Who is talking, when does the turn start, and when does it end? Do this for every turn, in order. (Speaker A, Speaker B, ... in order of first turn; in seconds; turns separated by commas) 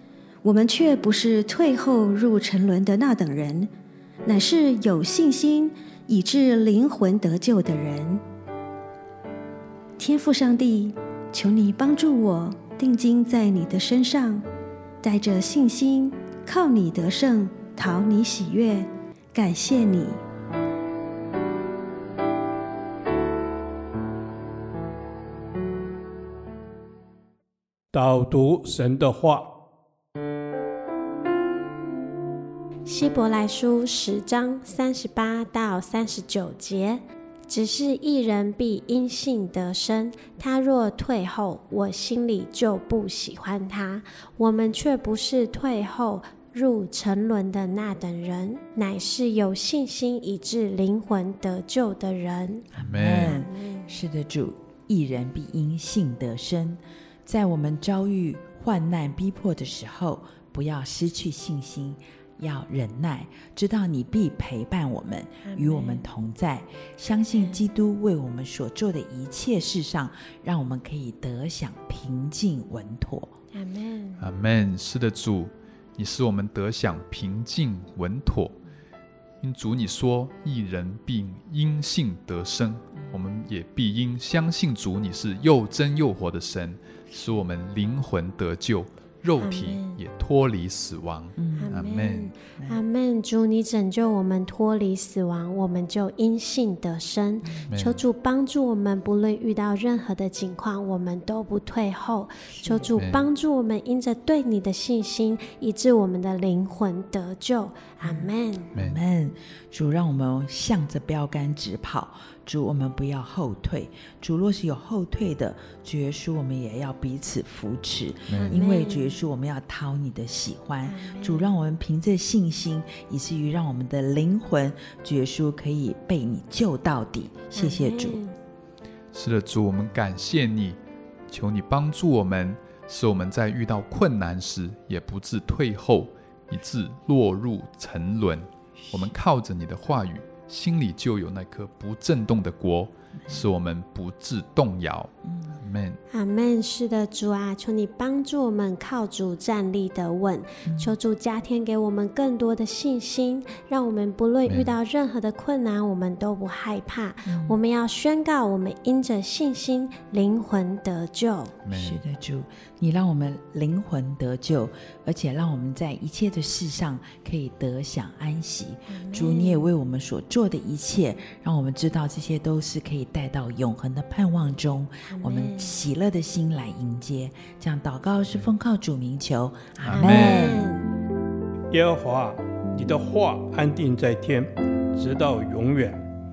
Speaker A: 0.4-3.7, Speaker A: 4.2-8.2, Speaker A: 10.0-14.4, Speaker A: 15.0-20.2, Speaker B: 27.9-29.5, Speaker C: 32.8-53.9, Speaker D: 52.7-73.3, Speaker E: 52.8-53.3, Speaker C: 65.4-66.0, Speaker C: 73.5-74.3, Speaker E: 74.2-78.5, Speaker E: 79.4-92.3, Speaker C: 89.4-90.0, Speaker D: 91.4-91.7, Speaker C: 91.5-108.7, Speaker E: 97.7-98.0, Speaker D: 102.5-102.8, Speaker E: 102.9-103.3, Speaker D: 108.0-128.2, Speaker E: 118.3-118.5, Speaker C: 118.3-119.1, Speaker C: 120.8-121.5, Speaker C: 127.5-128.3, Speaker E: 129.1-146.0, Speaker D: 138.8-139.2, Speaker C: 146.1-161.5, Speaker D: 150.6-150.9, Speaker E: 154.4-154.7, Speaker D: 157.3-157.6, Speaker E: 161.6-162.0, Speaker D: 161.7-180.6, Speaker C: 168.9-169.6, Speaker C: 175.1-175.7, Speaker E: 179.9-180.4, Speaker C: 179.9-180.9, Speaker B: 181.7-186.0